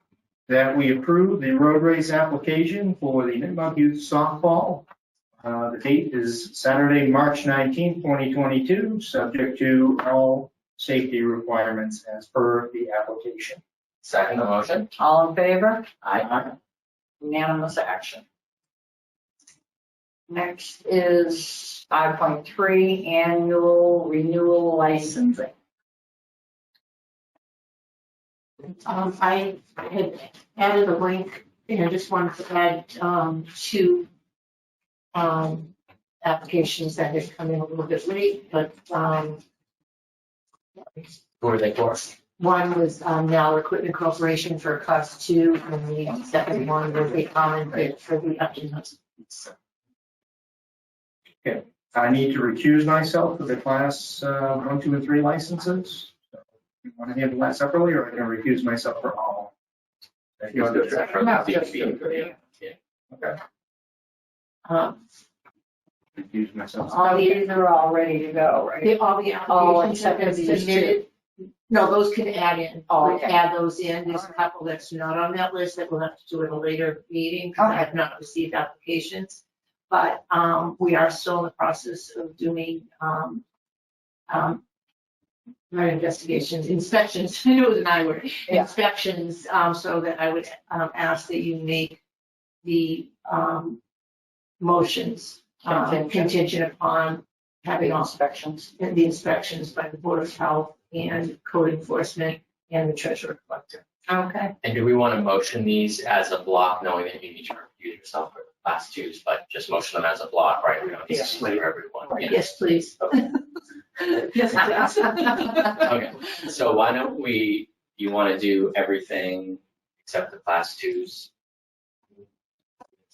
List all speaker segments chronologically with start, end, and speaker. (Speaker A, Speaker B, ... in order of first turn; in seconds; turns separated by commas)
Speaker A: 0.5-4.9, Speaker A: 5.4-13.6, Speaker B: 14.0-14.9, Speaker C: 15.0-15.9, Speaker B: 16.0-16.3, Speaker A: 16.2-16.5, Speaker C: 17.2-18.2, Speaker C: 20.3-25.5, Speaker D: 28.8-34.1, Speaker D: 35.1-39.4, Speaker D: 40.8-41.1, Speaker B: 41.4-42.2, Speaker D: 42.4-49.5, Speaker A: 51.4-56.2, Speaker A: 56.8-59.5, Speaker A: 60.4-61.5, Speaker B: 60.5-62.8, Speaker C: 61.1-62.3, Speaker A: 63.1-63.4, Speaker D: 64.7-65.0, Speaker A: 66.2-67.0, Speaker C: 66.9-68.9, Speaker D: 66.9-67.4, Speaker D: 68.8-71.1, Speaker C: 69.5-71.0, Speaker D: 71.7-83.4, Speaker C: 72.9-73.4, Speaker C: 77.6-77.9, Speaker D: 84.3-84.6, Speaker D: 85.7-92.0, Speaker D: 92.6-93.8, Speaker D: 94.6-98.1, Speaker C: 95.7-96.3, Speaker C: 97.8-98.7, Speaker D: 98.8-103.8, Speaker C: 104.1-104.5, Speaker B: 104.6-113.2, Speaker D: 112.2-113.3, Speaker D: 114.0-115.8, Speaker B: 115.7-121.3